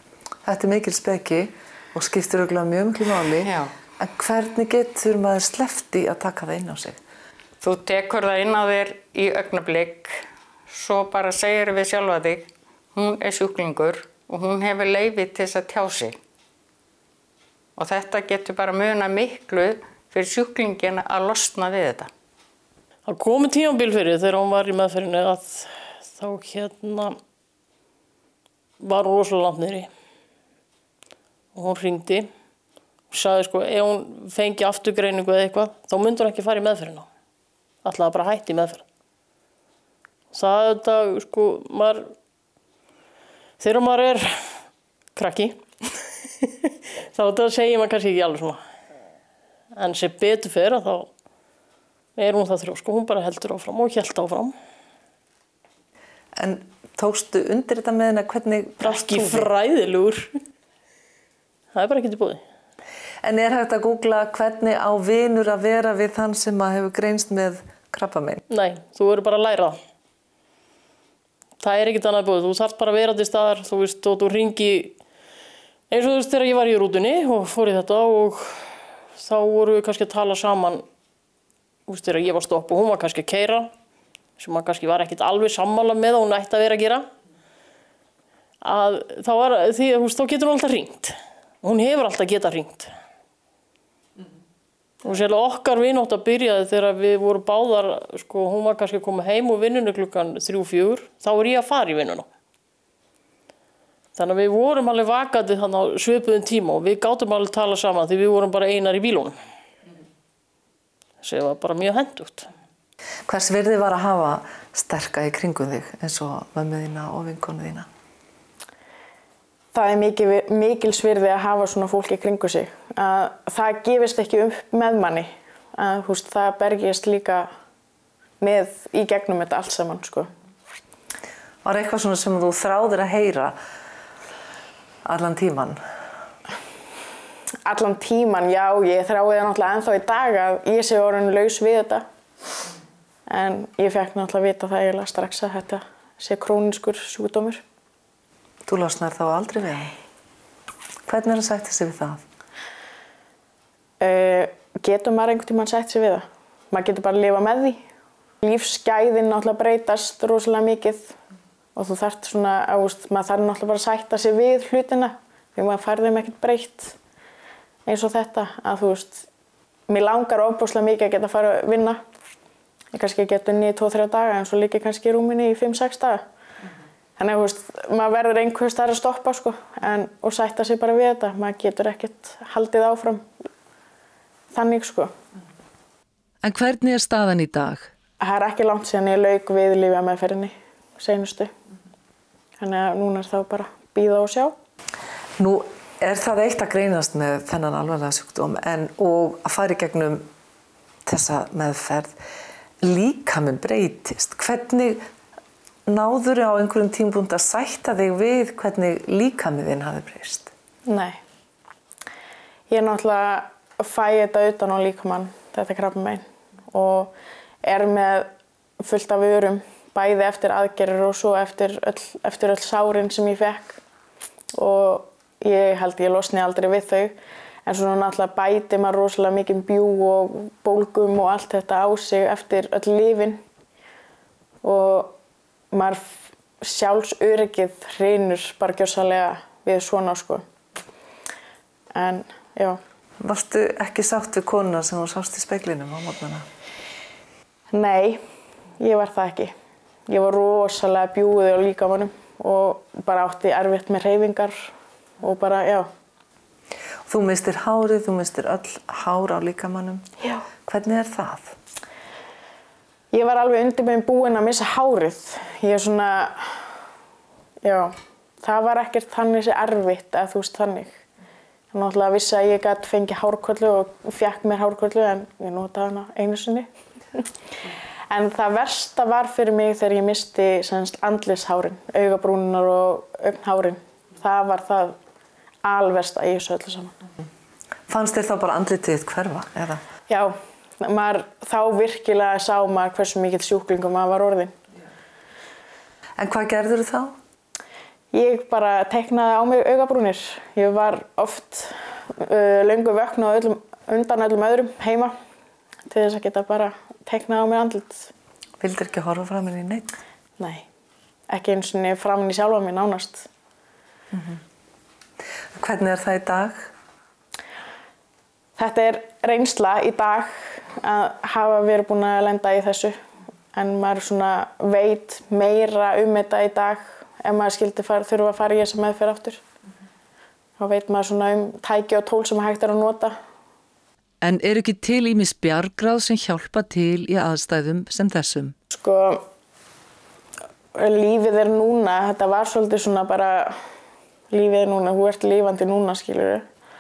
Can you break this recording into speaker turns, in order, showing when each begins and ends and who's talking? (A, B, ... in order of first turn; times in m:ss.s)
0:00.4-0:07.0 A
0:03.4-0:03.7 B
0:07.6-0:16.2 B
0:17.8-0:22.1 B
0:23.1-0:27.2 C
0:28.8-0:29.9 C
0:31.6-0:32.3 C
0:33.1-0:37.1 C
0:37.8-0:38.8 C
0:40.3-0:42.1 C
0:43.6-0:44.4 C
0:45.2-0:45.6 C
0:46.4-0:48.6 C
0:49.8-0:51.1 C
0:52.2-0:54.5 C
0:56.4-0:59.5 A
0:58.8-1:00.3 C
1:01.7-1:02.4 C
1:03.2-1:08.4 A
1:08.5-1:09.8 C
1:11.6-1:15.0 C
1:15.9-1:20.8 C
1:21.9-1:23.7 C
1:24.4-1:27.1 C
1:28.6-1:32.9 C
1:35.0-1:42.3 C
1:44.2-1:49.4 C
1:51.2-1:52.5 C
1:53.3-1:57.9 A
1:59.7-2:07.5 D
2:08.4-2:10.3 D
2:11.6-2:13.6 A
2:15.0-2:15.8 A
2:17.6-2:22.0 D
2:23.3-2:27.6 D
2:28.7-2:29.9 A
2:31.1-2:32.2 A
2:34.0-2:37.8 D
2:38.4-2:41.2 D
2:41.8-2:47.0 D
2:47.9-2:49.3 D
2:49.9-2:52.0 D
2:52.9-2:56.2 D
2:57.2-3:03.3 D
3:04.5-3:05.1 D
3:06.4-3:07.9 A
3:08.2-3:11.5 D
3:12.6-3:14.6 D
3:15.4-3:20.3 A
3:21.1-3:22.2 A
3:22.8-3:25.0 A
3:25.9-3:30.5 A
3:30.9-3:31.2 D
3:32.7-3:43.8 D
3:44.6-3:47.2 D
3:47.7-3:53.4 D
3:54.6-3:55.2 D
3:55.7-4:00.4 D
4:02.0-4:02.8 D
4:03.2-4:06.5 A
4:07.7-4:08.2 D
4:08.8-4:09.5 D
4:10.1-4:15.9 D
4:17.1-4:20.1 A
4:20.6-4:21.6 A
4:23.1-4:26.7 D
4:27.6-4:31.0 D
4:31.7-4:37.3 D
4:38.1-4:45.0 D
4:45.6-4:47.0 D
4:47.9-4:49.8 A
4:50.1-4:54.6 D
4:56.2-4:57.2 A
4:58.1-5:05.2 D
5:05.9-5:08.1 D
5:08.6-5:09.9 A
5:10.4-5:10.7 D
5:11.3-5:13.3 D
5:14.1-5:14.4 A
5:15.5-5:16.7 A
5:18.6-5:23.0 D
5:23.5-5:29.4 D
5:30.6-5:33.2 D
5:34.2-5:38.6 A
5:38.7-5:39.2 D
5:40.8-5:43.6 D
5:44.3-5:46.4 D